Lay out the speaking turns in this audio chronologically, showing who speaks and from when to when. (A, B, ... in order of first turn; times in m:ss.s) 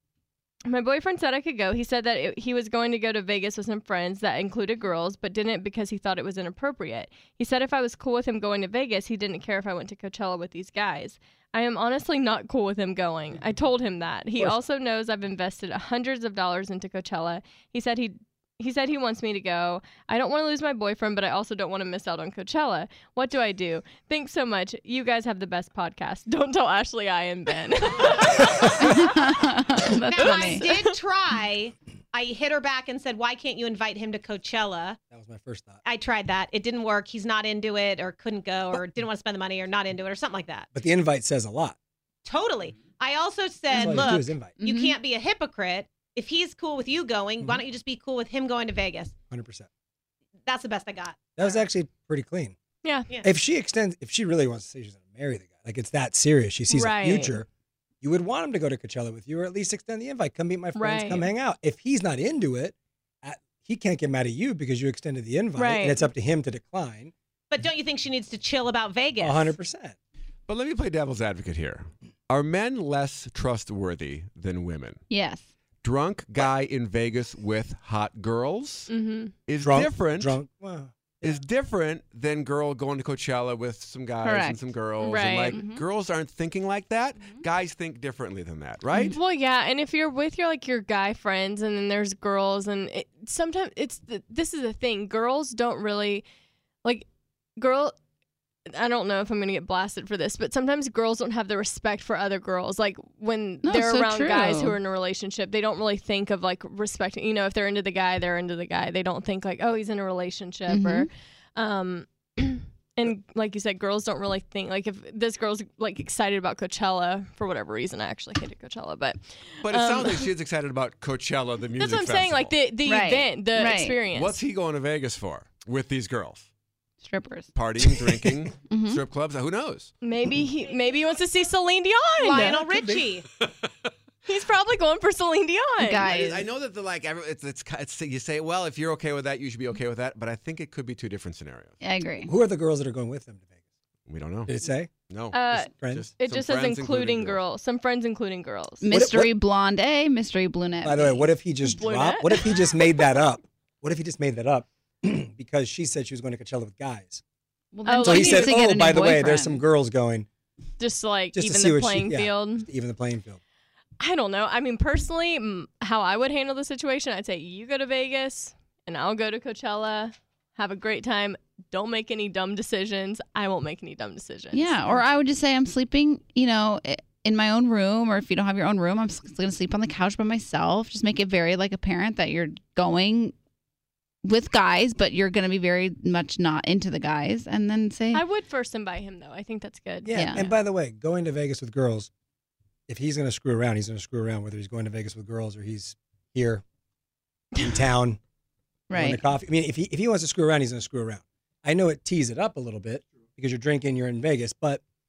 0:00.7-0:29.1 A
0:28.8-0:30.6 B
0:30.0-0:35.0 C
0:30.2-0:30.9 A
0:35.1-0:35.8 D
0:35.8-0:40.7 C
0:40.7-0:41.8 D
0:42.2-0:49.2 C
0:43.7-0:44.6 D
0:44.6-0:45.0 B
0:49.3-0:49.7 D
0:50.4-0:51.6 C
0:51.4-0:52.6 D
0:53.2-0:57.5 D
0:56.7-0:57.4 A
0:58.0-1:07.1 D
1:00.7-1:01.3 A
1:05.6-1:06.1 A
1:07.5-1:09.5 C
1:09.2-1:10.0 D
1:10.5-1:15.0 E
1:15.1-1:15.5 B
1:15.8-1:18.9 E
1:18.9-1:19.3 A
1:19.4-1:20.4 E
1:19.6-1:21.4 D
1:21.2-1:29.2 E
1:24.2-1:24.6 B
1:25.0-1:25.6 A
1:25.5-1:25.8 B
1:29.1-1:36.2 A
1:37.6-1:37.9 A
1:38.7-2:00.3 A
1:43.6-1:44.8 B
1:50.7-1:51.1 B
1:59.6-2:02.5 E
2:01.8-2:04.4 A
2:02.8-2:04.0 B
2:04.1-2:06.5 E
2:07.0-2:07.5 B
2:07.5-2:09.9 E
2:08.6-2:09.0 B
2:10.0-2:12.6 A
2:12.2-2:13.3 C
2:12.5-2:13.1 D
2:14.2-2:16.1 A
2:15.8-2:16.5 B
2:16.0-2:21.7 E
2:21.8-2:22.3 B
2:22.2-2:23.5 D
2:24.1-2:24.5 E
2:24.5-2:24.9 D
2:25.1-2:27.4 E
2:25.3-2:28.9 A
2:25.5-2:26.1 D
2:28.8-2:31.3 B
2:28.9-2:29.3 D
2:30.8-2:37.2 D
2:31.6-2:33.0 A
2:37.7-2:39.6 B
2:37.8-2:38.6 A
2:38.0-2:40.3 D
2:40.8-2:42.7 A
2:41.3-2:43.4 D
2:44.0-2:55.0 A
2:54.5-3:03.3 B
3:04.2-3:08.2 B
3:08.1-3:10.5 A
3:10.0-3:12.1 D
3:10.1-3:10.5 B
3:12.9-3:16.6 D
3:17.6-3:18.2 D
3:18.9-3:19.3 B
3:18.9-3:24.8 D